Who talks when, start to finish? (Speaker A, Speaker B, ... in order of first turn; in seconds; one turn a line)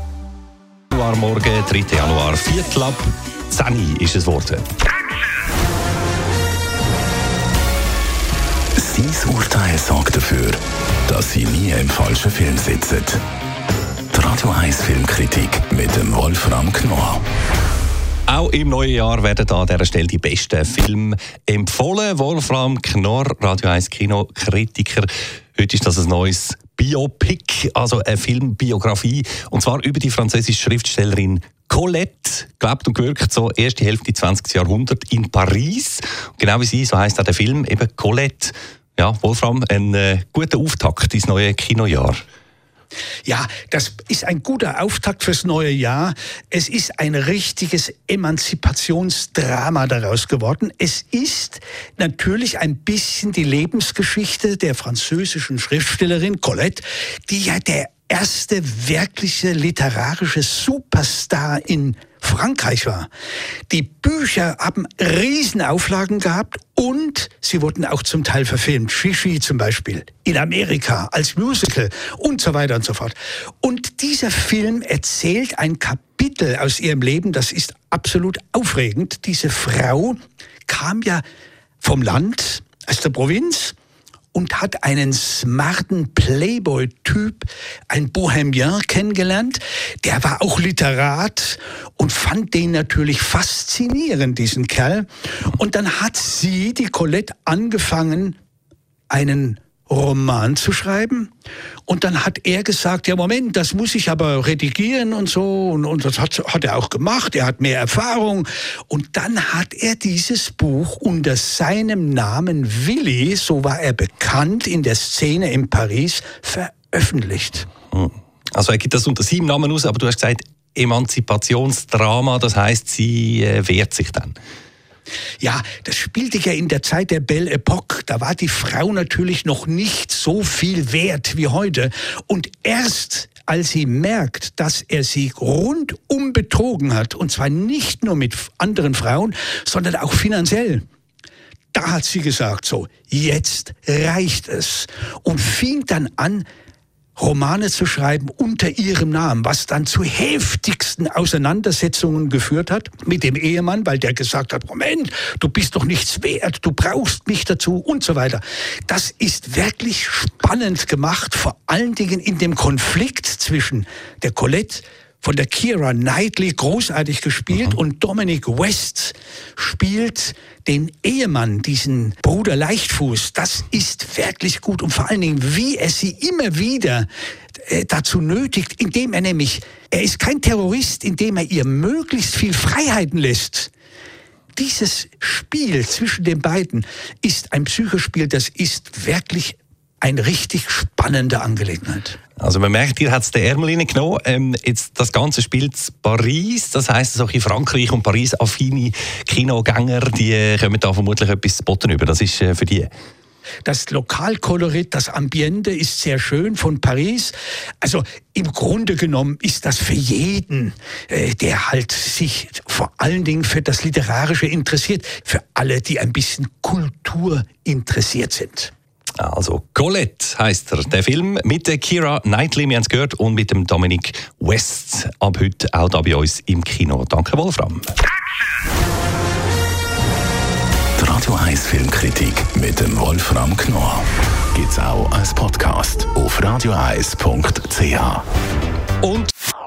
Speaker A: 0.9-4.7
Speaker B: 8.8-13.2
Speaker B: 14.1-17.2
Speaker A: 18.3-42.2
Speaker C: 43.2-63.1
Speaker C: 63.7-81.2
Speaker C: 81.8-83.7
Speaker C: 84.3-98.4
Speaker C: 99.1-101.3
Speaker C: 101.9-117.7
Speaker A: 117.9-124.3
Speaker C: 125.4-140.8
Speaker C: 141.7-146.4
Speaker C: 147.2-183.7
Speaker C: 184.5-192.2
Speaker A: 192.4-202.9
Speaker C: 203.6-218.7
Speaker A: 219.2-227.9
Speaker B: 231.0-238.2
Speaker A: 239.0-239.3